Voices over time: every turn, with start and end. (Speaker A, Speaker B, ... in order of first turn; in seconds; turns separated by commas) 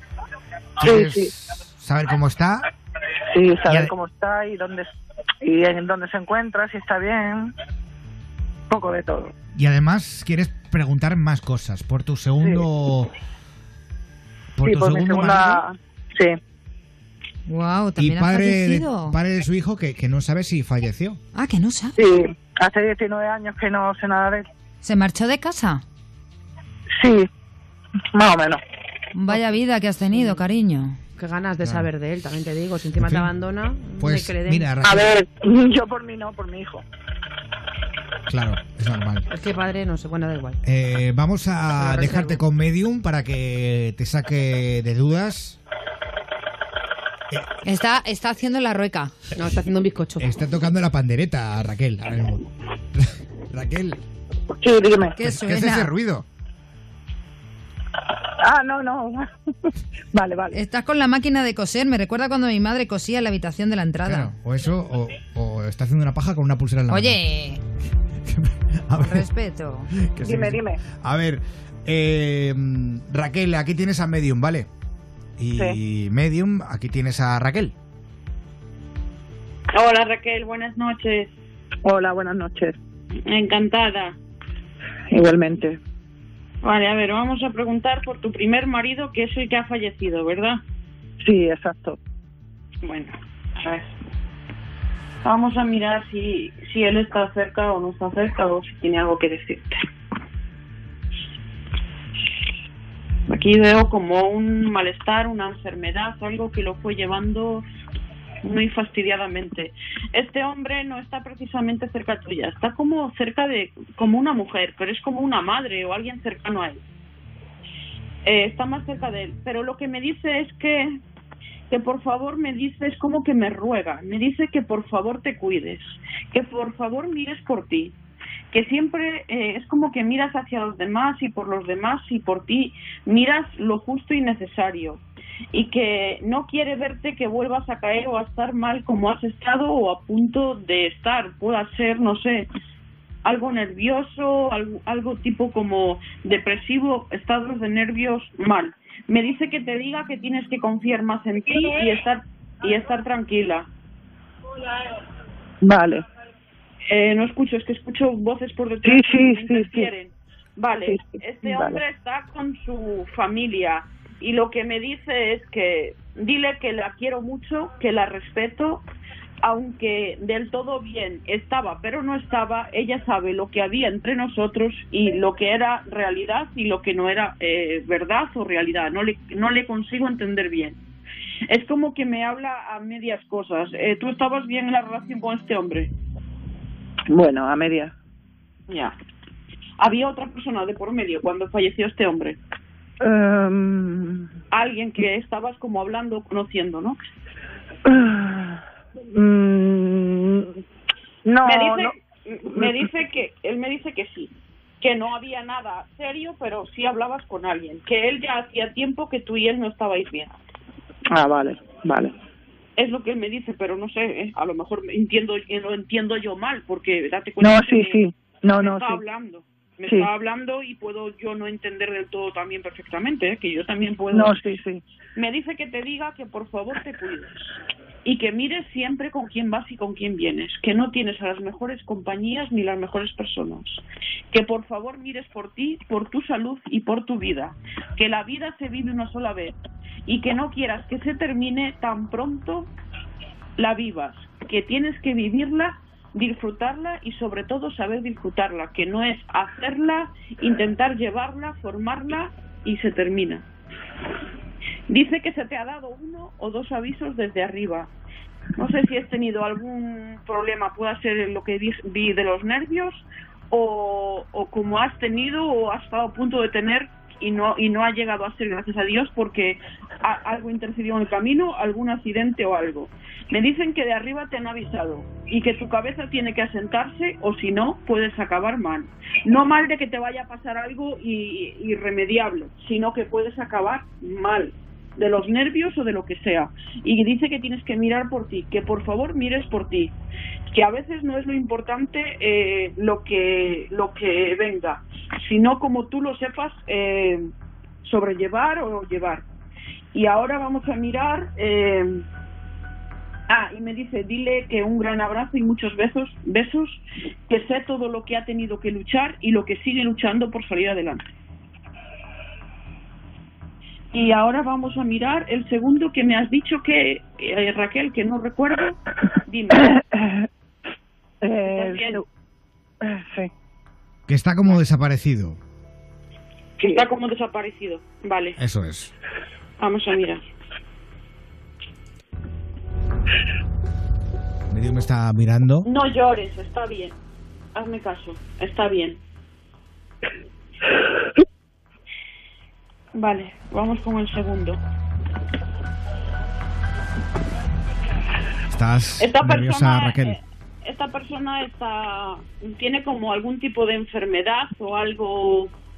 Speaker A: 0.8-2.7, Speaker B: 0.8-1.3, Speaker B: 3.3-4.9, Speaker A: 3.6-3.9, Speaker B: 5.4-7.5, Speaker B: 8.7-9.3, Speaker A: 9.5-13.1, Speaker A: 14.6-15.6, Speaker B: 14.6-16.4, Speaker C: 17.5-19.1, Speaker A: 18.0-21.2, Speaker C: 21.3-22.0, Speaker B: 21.9-24.4, Speaker C: 24.8-25.8, Speaker B: 27.0-27.3, Speaker B: 28.1-28.6, Speaker C: 29.1-31.0, Speaker D: 29.3-29.6, Speaker D: 30.1-30.4, Speaker D: 31.2-34.7, Speaker A: 31.6-31.9, Speaker A: 33.0-33.3, Speaker A: 34.0-35.1, Speaker B: 34.9-36.8, Speaker A: 38.3-39.3, Speaker D: 39.3-40.6, Speaker A: 40.6-45.6, Speaker D: 41.7-42.4, Speaker C: 47.6-49.3, Speaker D: 49.3-50.3, Speaker A: 50.2-54.0, Speaker B: 54.5-55.2, Speaker C: 55.1-55.9, Speaker A: 55.2-56.2, Speaker B: 58.4-60.6, Speaker C: 60.5-64.3, Speaker A: 64.0-67.2, Speaker C: 66.9-67.6, Speaker A: 68.2-69.2, Speaker C: 69.0-69.9, Speaker A: 70.0-74.7, Speaker B: 70.2-70.8, Speaker A: 75.4-77.7, Speaker E: 79.7-81.3, Speaker B: 81.8-82.8, Speaker E: 83.2-84.2, Speaker B: 85.1-85.8, Speaker E: 86.6-90.6, Speaker B: 91.2-92.0, Speaker E: 92.8-93.9, Speaker E: 95.2-99.8, Speaker E: 103.3-107.6, Speaker E: 108.4-116.8, Speaker E: 118.2-121.0, Speaker E: 121.7-127.9, Speaker E: 128.5-142.5, Speaker E: 143.2-153.7, Speaker B: 155.6-156.0, Speaker E: 156.9-168.8, Speaker B: 158.8-159.9, Speaker B: 160.9-161.8, Speaker E: 169.4-180.8, Speaker E: 181.5-185.9, Speaker B: 187.1-187.9, Speaker E: 188.7-188.9, Speaker E: 189.8-192.4, Speaker B: 193.0-194.3, Speaker E: 194.5-197.0, Speaker B: 197.8-200.5, Speaker B: 201.2-201.9, Speaker E: 201.4-210.3, Speaker B: 211.1-212.1, Speaker E: 212.8-218.0, Speaker B: 217.4-219.0, Speaker E: 218.6-224.3, Speaker B: 224.1-224.8, Speaker E: 225.2-227.5, Speaker E: 228.0-242.7, Speaker E: 243.6-253.5, Speaker E: 254.9-257.9, Speaker E: 258.6-289.9, Speaker E: 290.5-297.3, Speaker E: 297.8-299.2, Speaker E: 299.9-302.0, Speaker E: 303.3-311.1, Speaker E: 313.9-319.7, Speaker B: 319.8-320.2, Speaker B: 321.2-322.0, Speaker E: 321.4-322.0, Speaker B: 322.8-323.3, Speaker A: 324.1-325.4, Speaker E: 326.6-328.4, Speaker A: 328.4-328.9, Speaker E: 329.6-330.2, Speaker A: 334.5-335.7, Speaker E: 335.6-336.9, Speaker E: 337.5-339.0, Speaker E: 342.9-344.6, Speaker A: 348.5-350.2, Speaker E: 349.0-355.5